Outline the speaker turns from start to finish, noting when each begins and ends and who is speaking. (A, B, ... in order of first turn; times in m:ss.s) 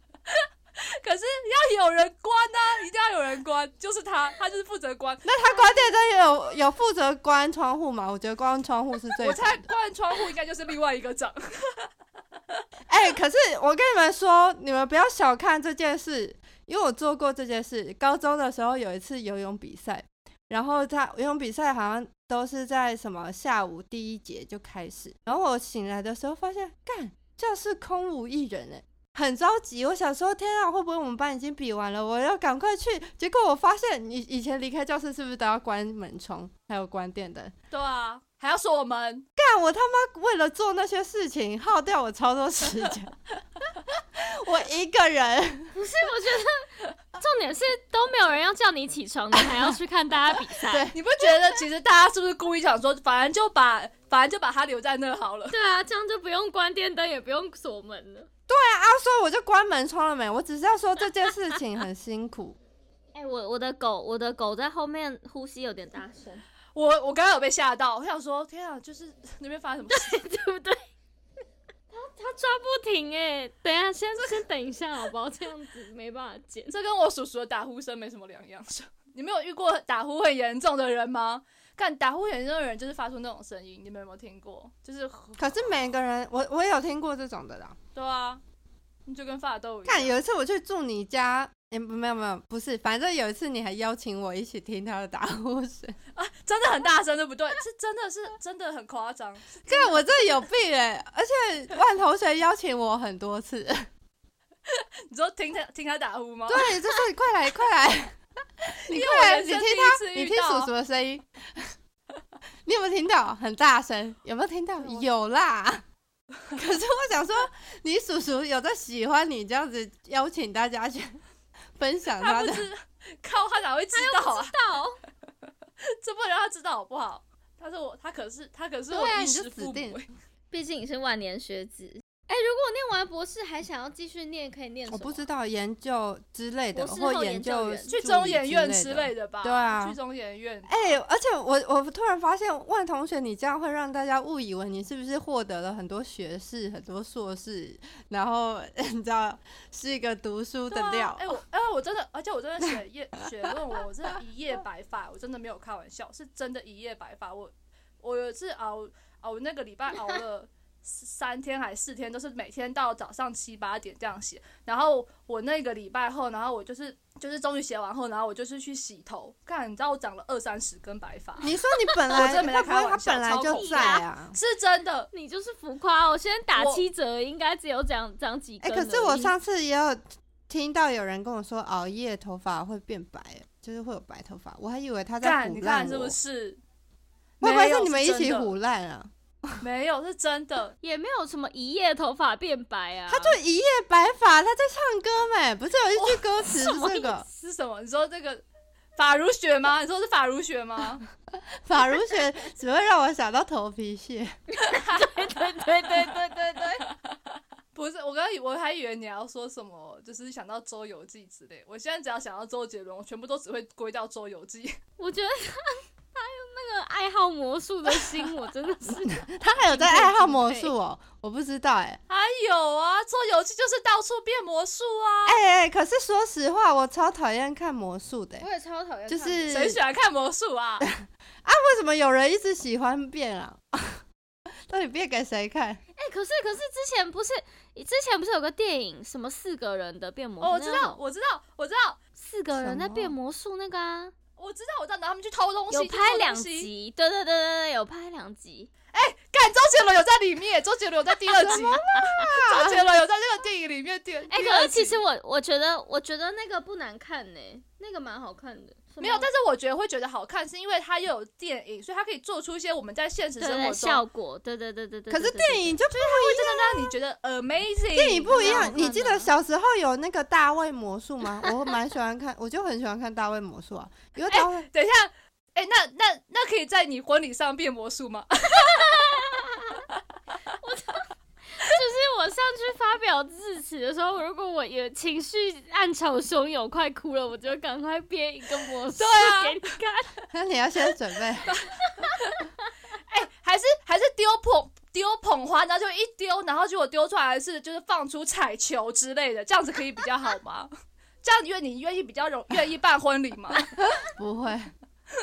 0:00.3-0:05.3 A
0:05.2-0:09.6 B
0:09.2-0:11.9 A
0:12.9-0:37.5 B
0:37.7-0:39.2 A
0:39.4-0:43.1 B
0:44.0-0:45.7 B
0:45.7-0:50.9 C
0:49.4-0:49.7 B
0:50.6-0:51.0 B
0:50.9-0:55.5 A
0:55.5-0:58.3 C
0:58.5-1:02.6 B
1:03.1-1:06.4 C
1:06.7-1:10.2 A
1:09.9-1:10.8 C
1:11.9-1:16.8 C
1:16.7-1:25.4 A
1:25.4-1:27.8 B
1:27.9-1:28.4 A
1:29.1-1:30.1 A
1:29.8-1:36.0 B
1:36.2-1:40.0 A
1:39.6-1:43.9 B
1:44.7-1:46.7 A
1:46.5-1:48.2 B
1:48.9-1:50.7 A
1:48.9-1:51.7 B
1:52.6-1:55.8 B
1:56.5-2:01.2 B
2:01.8-2:02.7 B
2:02.2-2:04.5 A
2:03.9-2:05.0 C
2:06.0-2:10.1 A
2:08.9-2:10.0 B
2:10.5-2:15.2 C
2:14.9-2:20.0 B
2:16.7-2:17.9 C
2:17.9-2:21.0 A
2:20.7-2:31.4 B
2:30.7-2:51.5 A
2:51.4-2:54.4 B
2:52.0-2:55.1 A
2:53.5-2:54.0 C
2:55.1-2:59.3 C
2:56.6-2:56.8 A
2:58.6-3:06.1 B
3:05.2-3:06.6 A
3:07.4-3:08.5 A
3:07.4-3:09.6 B
3:09.6-3:10.7 A
3:10.8-3:13.4 C
3:13.1-3:17.3 B
3:16.0-3:16.3 A
3:16.4-3:17.2 C
3:17.4-3:18.4 A
3:19.0-3:21.0 A
3:21.6-3:24.3 B
3:24.5-3:26.8 C
3:24.7-3:25.1 A
3:27.7-3:34.8 A
3:35.0-3:40.7 C
3:39.0-3:42.0 B
3:42.1-3:45.4 A
3:45.2-3:48.5 B
3:48.4-3:49.6 C
3:49.1-3:49.8 B
3:49.5-3:50.9 A
3:50.8-3:54.0 B
3:54.7-3:55.8 B
3:56.0-4:01.0 C
4:00.4-4:02.0 A
4:02.2-4:04.1 C
4:02.6-4:03.1 B
4:04.4-4:06.7 A
4:05.7-4:08.7 C
4:08.9-4:15.0 A
4:11.4-4:12.8 B
4:11.4-4:11.8 C
4:14.3-4:19.3 C
4:19.0-4:24.0 A
4:23.4-4:25.8 C
4:25.1-4:26.9 B
4:26.0-4:28.8 A
4:27.9-4:34.6 B
4:28.3-4:29.3 C
4:34.3-4:39.1 A
4:38.6-4:39.8 C
4:40.6-4:50.1 C
4:49.0-4:49.6 A
4:50.3-4:51.5 B
4:51.4-4:52.4 A
4:51.8-4:52.3 C
4:53.1-5:00.7 A
5:01.2-5:03.6 A
5:03.8-5:04.7 B